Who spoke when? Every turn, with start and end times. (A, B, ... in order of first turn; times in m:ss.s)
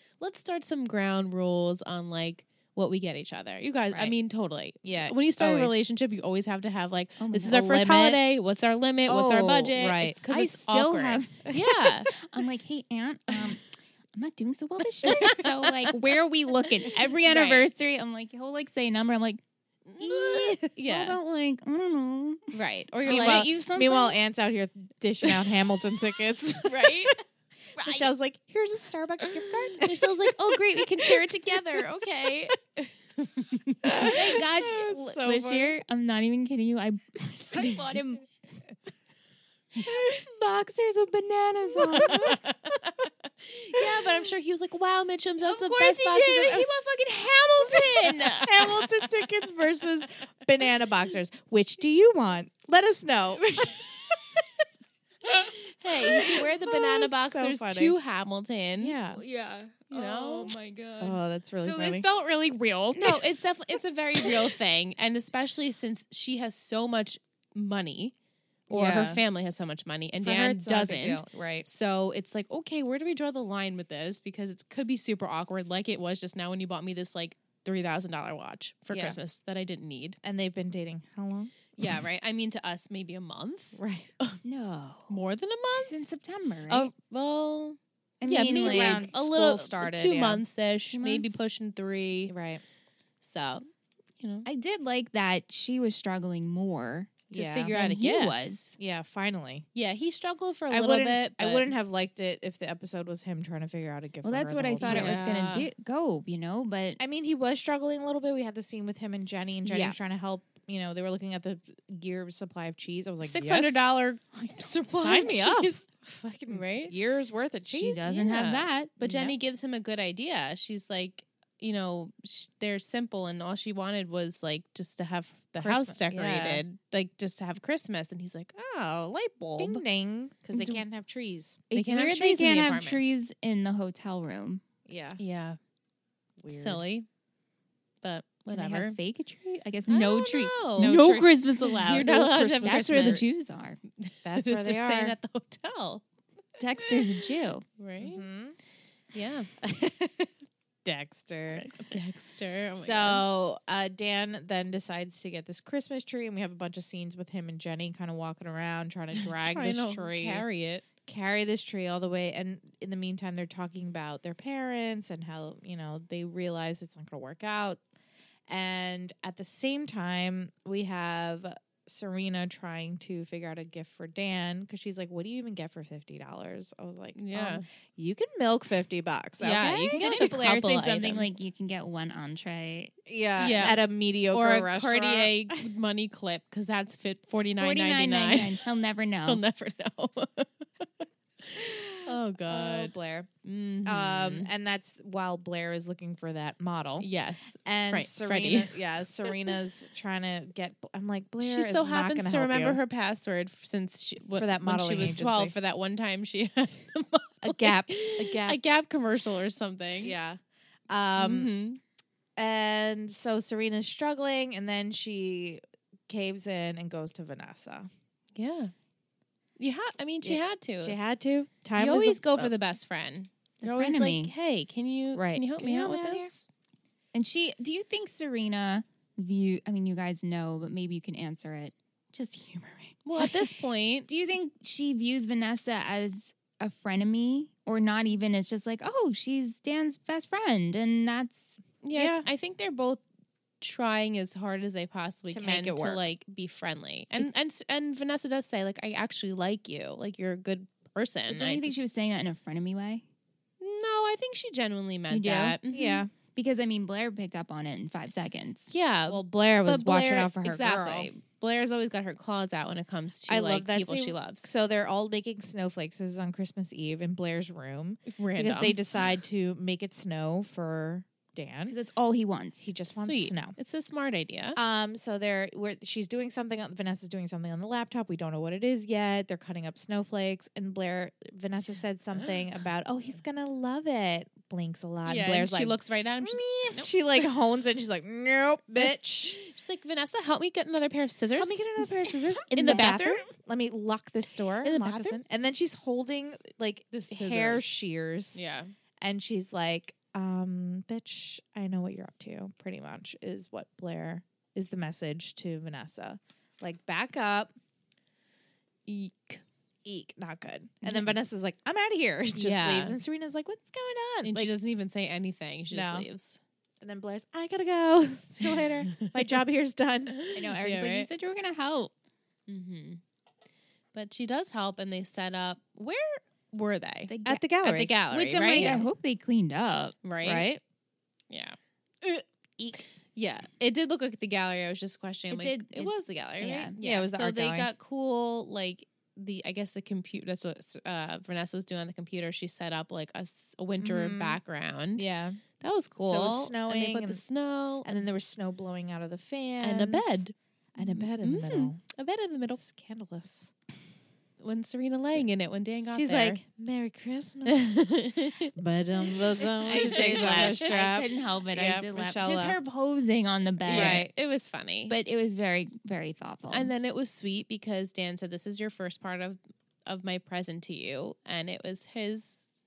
0:00.2-0:12.1 A
0:04.8-0:05.8 B
0:07.2-0:07.8 C
0:07.5-0:08.2 B
0:09.0-0:11.4 C
0:09.8-0:10.2 B
0:12.1-0:19.4 C
0:15.1-0:15.7 A
0:17.2-0:17.7 A
0:19.9-0:21.2 A
0:20.0-0:20.7 B
0:20.0-0:24.2 C
0:22.5-0:23.5 A
0:23.1-0:27.1 B
0:26.6-0:27.2 A
0:27.8-0:28.1 C
0:27.8-0:31.3 B
0:29.2-0:33.8 A
0:33.8-0:35.8 B
0:34.0-0:38.3 C
0:39.7-0:42.4 C
0:39.8-0:40.2 B
0:41.7-0:42.4 B
0:42.2-0:46.7 A
0:45.4-0:48.8 C
0:47.8-0:48.4 A
0:48.4-0:53.5 B
0:53.4-0:53.8 A
0:55.8-0:59.0 A
0:56.2-0:57.9 B
0:58.8-0:59.2 B
0:59.1-1:03.2 C
0:59.9-1:00.5 A
1:01.0-1:02.0 B
1:03.0-1:08.1 A
1:08.7-1:20.2 A
1:08.7-1:09.2 B
1:10.2-1:11.6 B
1:18.9-1:19.2 B
1:20.2-1:21.9 B
1:21.8-1:24.4 A
1:23.7-1:24.1 B
1:24.4-1:25.2 C
1:25.1-1:26.0 A
1:25.8-1:26.9 C
1:26.7-1:32.3 A
1:28.2-1:29.1 C
1:28.4-1:30.4 B
1:30.9-1:31.4 C
1:32.3-1:32.6 B
1:33.2-1:33.6 A
1:34.2-1:34.5 A
1:34.4-1:38.7 C
1:37.3-1:37.7 B
1:37.3-1:38.5 A
1:38.8-1:39.6 B
1:39.7-1:41.7 A
1:40.7-1:45.2 B
1:44.2-1:47.0 C
1:44.8-1:45.7 A
1:47.0-1:53.9 B
1:49.6-1:50.0 C
1:53.2-1:55.8 A
1:54.9-1:58.1 B
1:56.5-1:56.9 A
1:57.7-1:58.9 C
1:58.1-2:09.8 A
1:59.0-1:59.4 B
2:05.6-2:06.6 B
2:09.6-2:11.6 B
2:10.5-2:10.8 A
2:11.7-2:14.6 C
2:11.7-2:13.0 A
2:14.9-2:15.2 B
2:15.2-2:15.6 A
2:16.4-2:16.8 B
2:16.5-2:17.0 A
2:18.0-2:19.0 A
2:18.5-2:23.8 C
2:19.9-2:21.0 A
2:20.8-2:21.4 B
2:21.7-2:23.2 A
2:21.9-2:23.2 B
2:24.0-2:26.0 A
2:24.2-2:25.2 B
2:26.6-2:27.6 C
2:26.8-2:27.2 A
2:27.8-2:28.2 A
2:28.0-2:28.6 B
2:29.1-2:29.5 A
2:29.6-2:30.3 B
2:30.8-2:31.7 B
2:31.5-2:33.2 A
2:32.7-2:40.4 B
2:39.2-2:40.8 A
2:41.0-2:47.8 B
2:48.5-3:00.1 B
2:57.2-2:57.6 A
2:59.4-3:01.3 A
2:59.9-3:03.5 C
3:03.0-3:05.6 B
3:03.4-3:03.8 A
3:04.3-3:08.6 A
3:07.6-3:09.4 C
3:09.2-3:12.9 A
3:11.6-3:13.3 B
3:13.4-3:14.5 A
3:13.8-3:17.1 B
3:17.0-3:19.5 A
3:17.6-3:22.8 B
3:21.4-3:30.2 A
3:24.4-3:25.5 B
3:27.4-3:28.6 B
3:30.0-3:31.5 B
3:31.2-3:31.8 A
3:32.4-3:37.9 B
3:38.4-3:38.7 A
3:39.6-3:41.0 A
3:40.2-3:42.5 B
3:41.8-3:46.4 A
3:43.6-3:44.3 C
3:45.1-3:46.3 B
3:47.1-3:53.3 C
3:53.0-3:54.1 A
3:54.0-4:01.6 C
4:01.8-4:03.0 A
4:01.9-4:02.2 B
4:03.6-4:11.9 A
4:05.3-4:06.0 B
4:11.3-4:13.0 C
4:13.6-4:16.0 A
4:15.1-4:15.6 C
4:15.7-4:16.1 B
4:16.3-4:18.7 C
4:18.7-4:24.5 A
4:19.1-4:21.1 B
4:23.3-4:31.8 B
4:28.1-4:28.8 A
4:31.7-4:32.7 C
4:32.6-4:33.6 B
4:33.0-4:34.6 A
4:34.6-4:49.4 B
4:45.0-4:47.2 A
4:48.8-4:51.6 A
4:51.4-4:58.4 B
4:52.5-4:53.2 A
4:52.6-4:53.0 C
4:54.6-4:55.2 A
4:56.9-4:57.7 A
4:58.3-4:58.7 A
4:59.0-5:07.5 B
5:08.9-5:09.4 A
5:09.8-5:14.5 B
5:10.8-5:11.1 A
5:12.3-5:13.0 A
5:14.2-5:16.4 A
5:15.7-5:16.1 B
5:16.8-5:20.2 B
5:18.5-5:19.2 A
5:20.1-5:21.1 A
5:20.3-5:21.9 C
5:22.5-5:23.0 A
5:23.9-5:28.9 A
5:27.1-5:27.4 C
5:27.2-5:27.9 B
5:28.1-5:30.0 C
5:28.5-5:28.8 B
5:30.0-5:30.5 A
5:30.2-5:30.6 B
5:31.3-5:32.2 A
5:32.8-5:45.0 A
5:35.3-5:36.8 C
5:36.8-5:37.7 B
5:43.8-5:44.4 B
5:45.0-5:45.4 B
5:45.6-5:48.0 A
5:46.0-5:47.2 B
5:47.8-5:50.2 B
5:49.6-5:52.6 A
5:50.8-5:51.8 B
5:52.6-5:53.5 B
5:54.4-5:56.4 A
5:55.9-5:57.9 B
5:57.5-5:58.5 A
5:58.5-6:02.6 B
5:59.6-6:00.7 A
5:59.6-6:04.1 C
6:03.6-6:04.9 A
6:03.7-6:04.1 B
6:04.9-6:06.7 C
6:06.5-6:12.4 A